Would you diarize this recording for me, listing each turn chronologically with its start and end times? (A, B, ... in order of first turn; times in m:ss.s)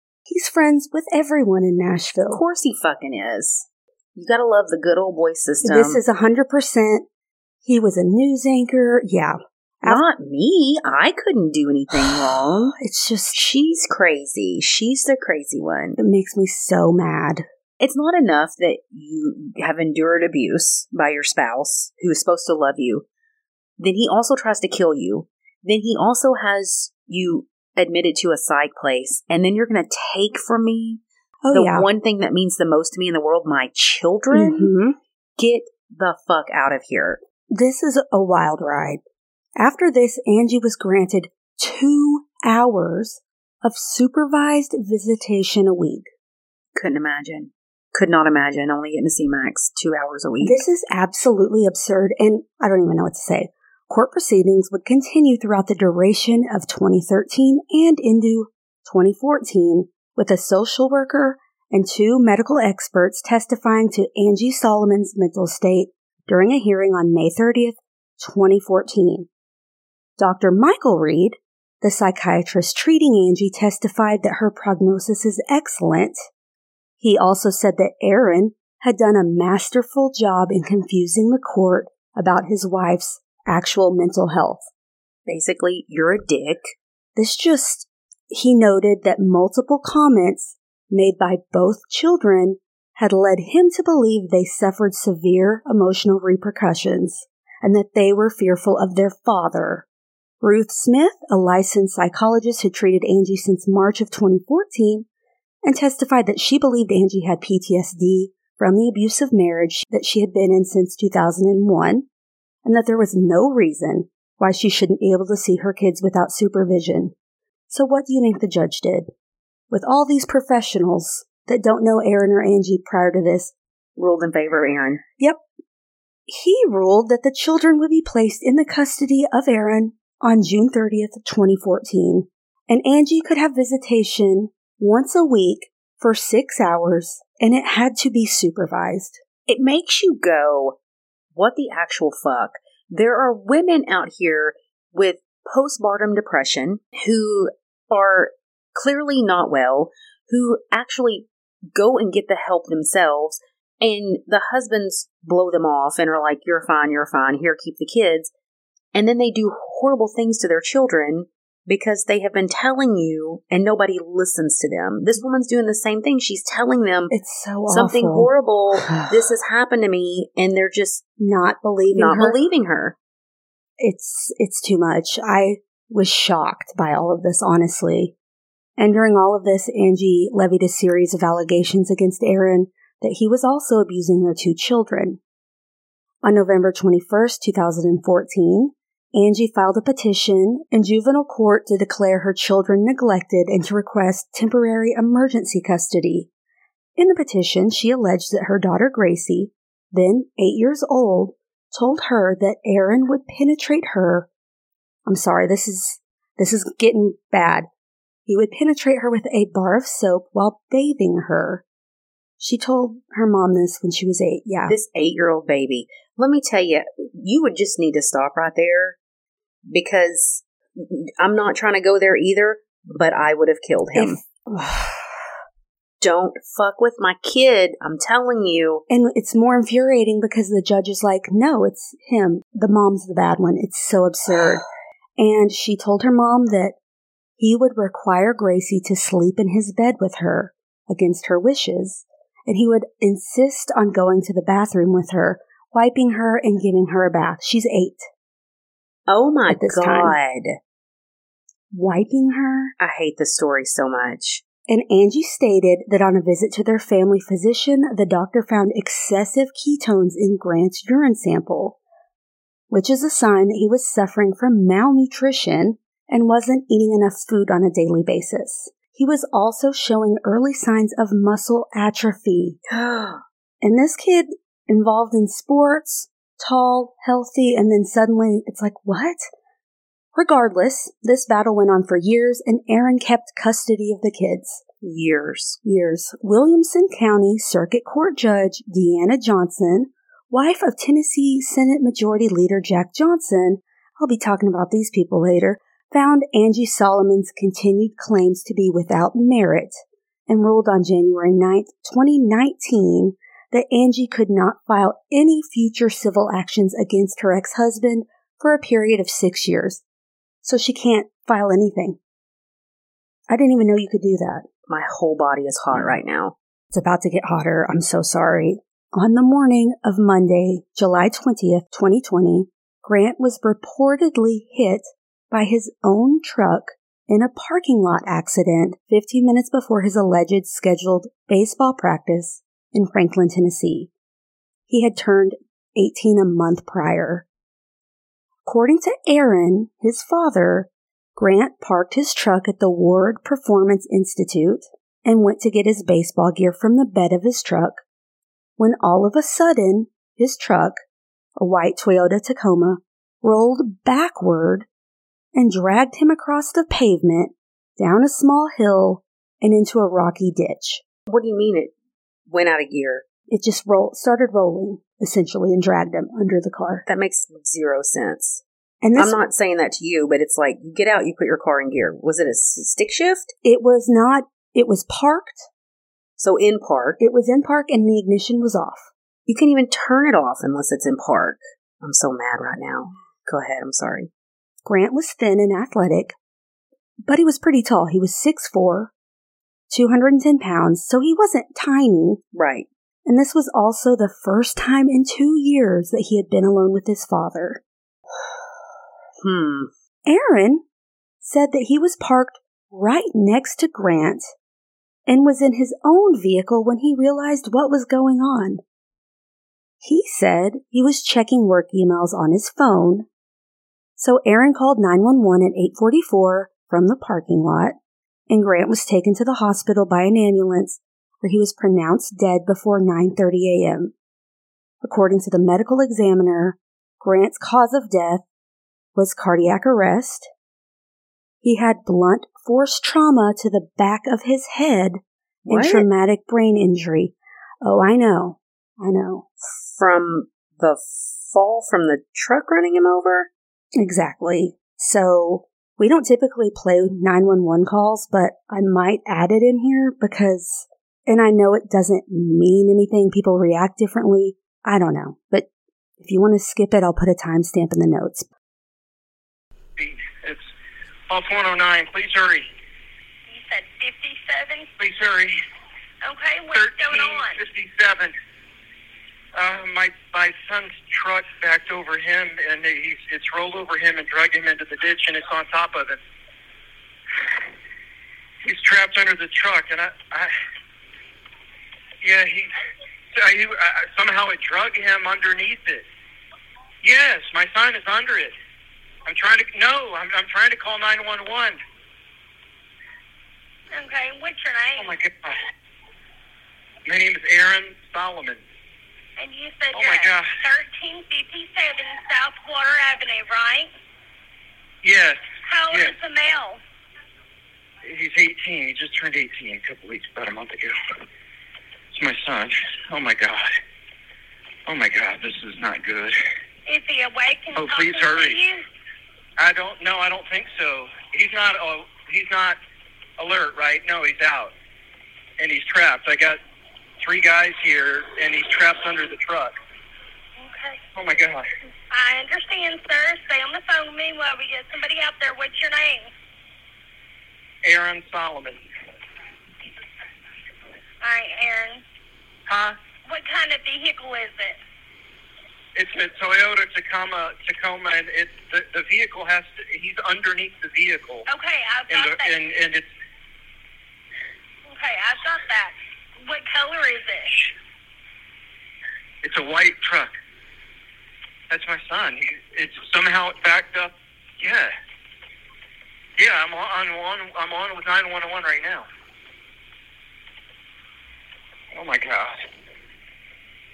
0:00.3-0:02.4 A
0:02.3-0:06.0 B
0:05.6-0:07.0 A
0:07.6-0:10.0 A
0:09.8-0:12.7 B
0:11.9-0:13.4 A
0:13.3-0:16.0 B
0:16.0-0:17.4 A
0:17.8-0:23.0 B
0:23.8-0:34.7 B
0:31.4-0:31.9 A
0:34.3-0:35.0 A
0:35.4-0:37.2 B
0:37.5-0:39.0 A
0:39.6-0:46.1 A
0:46.8-0:50.6 B
0:50.4-1:09.3 A
1:10.2-1:16.2 A
1:17.0-1:24.6 A
1:25.2-1:26.7 B
1:27.2-1:39.8 A
1:40.4-1:45.0 A
1:45.6-1:52.0 A
1:52.6-1:57.1 A
1:57.7-1:59.1 A
1:59.7-2:03.5 A
2:04.0-2:05.0 B
2:06.3-2:19.2 A
2:19.5-2:20.8 B
2:21.3-2:38.3 B
2:38.9-2:47.1 B
2:47.1-2:49.3 A
2:47.7-2:51.0 B
2:51.2-2:52.4 A
2:51.9-2:52.9 B
2:53.8-2:58.1 A
2:58.8-3:05.2 A
3:06.2-3:16.3 A
3:17.0-3:24.3 A
3:25.0-3:27.7 A
3:28.3-3:31.6 A
3:32.4-3:34.7 A
3:34.7-3:39.0 B
3:39.7-3:44.2 B
3:43.9-3:45.2 A
3:46.0-3:48.8 B
3:48.9-3:54.6 A
3:55.2-3:56.7 A
3:57.4-4:08.1 A
4:09.1-4:10.6 B
4:09.5-4:10.2 A
4:11.7-4:12.7 A
4:12.8-4:14.4 B
4:14.7-4:21.8 A
4:22.7-4:32.6 A
4:32.7-4:33.2 B
4:33.6-4:39.3 A
4:40.1-4:44.6 A
4:44.8-4:45.6 B
4:45.6-5:09.8 A
5:10.4-5:12.0 A
5:13.3-5:14.4 A
5:14.7-5:16.4 B
5:16.7-5:33.9 A
5:34.7-5:37.2 A
5:38.4-5:47.8 A
5:48.6-5:50.8 A
5:51.4-5:54.6 A
5:55.3-6:00.8 A
6:01.1-6:01.7 B
6:02.3-6:03.0 B
6:03.3-6:06.8 A
6:06.8-6:08.4 B
6:08.8-6:09.2 A
6:09.0-6:13.3 B
6:13.4-6:15.5 A
6:16.2-6:17.0 B
6:17.0-6:18.9 A
6:19.3-6:24.1 B
6:24.6-6:26.1 A
6:27.0-6:28.9 A
6:29.7-6:32.2 A
6:32.3-6:32.7 B
6:33.0-6:37.6 A
6:39.2-6:39.7 B
6:40.0-6:40.6 A
6:41.2-6:44.3 A
6:45.1-6:48.6 A
6:49.8-6:53.0 A
6:54.0-6:57.8 A
6:58.3-7:03.9 A
7:04.8-7:08.2 A
7:08.9-7:10.3 A
7:11.4-7:19.3 A
7:15.5-7:15.9 B
7:19.6-7:23.3 B
7:23.8-7:35.5 A
7:36.0-7:38.3 A
7:39.8-7:40.4 C
7:41.1-7:42.5 C
7:43.3-7:44.7 D
7:44.8-7:45.4 C
7:46.0-7:47.4 D
7:46.5-7:48.1 C
7:49.3-7:56.0 C
7:58.4-8:00.3 C
8:02.0-8:02.5 C
8:03.1-8:05.8 C
8:06.8-8:08.3 C
8:09.0-8:11.6 C
8:13.7-8:15.0 D
8:14.8-8:15.4 C
8:16.8-8:18.4 C
8:19.2-8:23.7 D
8:19.7-8:20.3 C
8:24.8-8:25.9 C
8:25.5-8:26.6 D
8:27.8-8:30.8 C
8:31.9-8:33.5 C
8:34.6-8:36.2 C
8:36.6-8:38.6 D
8:37.5-8:38.4 C
8:39.4-8:42.6 C
8:43.2-8:44.5 C
8:45.4-8:46.4 C
8:47.0-8:49.5 C
8:50.4-8:50.8 D
8:50.9-8:51.4 C
8:51.9-8:56.1 D
8:57.6-8:58.6 C
9:01.0-9:01.8 D
9:02.5-9:02.8 C
9:03.0-9:04.6 D
9:05.7-9:11.2 C
9:11.3-9:12.4 D
9:11.9-9:12.9 C
9:14.7-9:17.5 D
9:19.2-9:20.1 C
9:21.5-9:24.7 C
9:26.2-9:28.8 C
9:31.7-9:32.4 C